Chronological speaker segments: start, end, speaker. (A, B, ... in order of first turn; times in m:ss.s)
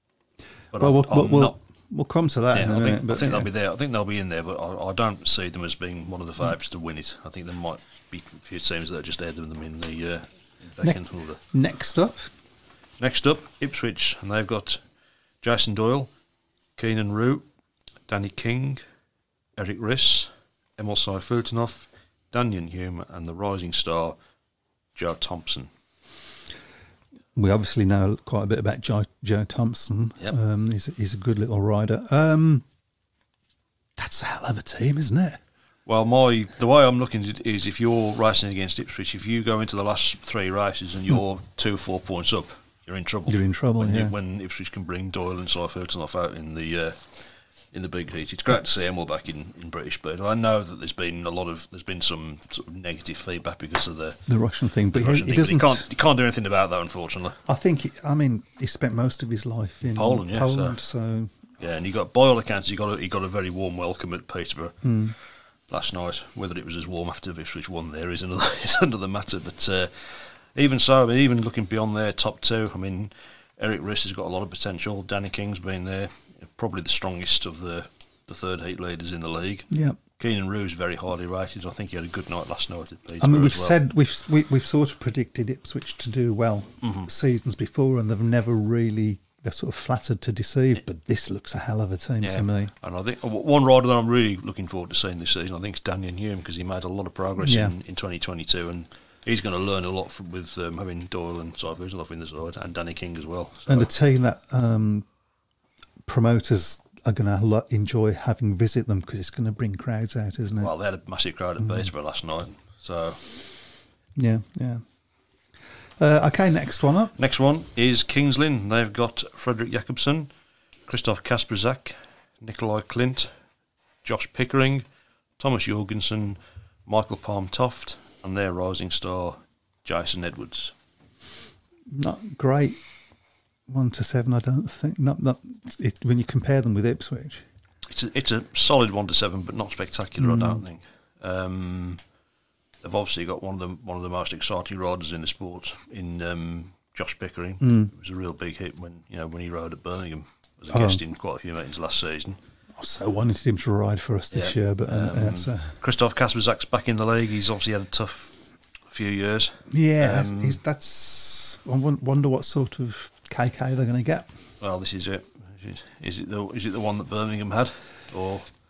0:00.7-0:01.6 A
0:00.8-0:03.5 B
0:02.5-0:11.4 A
0:11.5-0:12.3 B
0:13.0-0:14.8 A
0:15.4-0:16.1 A
0:16.8-0:17.4 A
0:18.1-0:18.8 A
0:19.6-0:24.2 A
0:25.0-0:25.7 A
0:27.4-0:32.6 B
0:34.0-0:35.4 B
0:35.9-0:47.2 A
0:43.3-0:44.2 B
0:47.7-0:54.2 A
0:54.3-0:55.9 B
0:54.9-0:57.4 A
0:57.5-1:01.4 B
0:59.9-1:00.8 A
1:01.6-1:05.1 A
1:04.8-1:05.2 B
1:05.7-1:23.8 A
1:19.7-1:20.0 B
1:23.2-1:32.7 B
1:26.8-1:27.1 A
1:32.2-1:43.9 A
1:37.4-1:37.8 B
1:43.7-1:45.1 B
1:46.0-1:50.7 B
1:50.6-1:53.2 A
1:54.2-1:54.8 B
1:56.0-1:57.1 B
1:57.2-2:00.3 A
2:00.9-2:03.3 A
2:04.0-2:04.8 A
2:05.4-2:10.7 A
2:11.9-2:12.8 B
2:13.7-2:17.4 B
2:17.9-2:22.0 A
2:20.2-2:20.6 B
2:22.8-2:32.4 A
2:27.6-2:27.9 B
2:30.7-2:31.0 B
2:32.8-2:35.8 B
2:34.3-2:38.4 A
2:38.9-2:40.6 A
2:39.7-2:44.3 B
2:44.6-2:48.5 A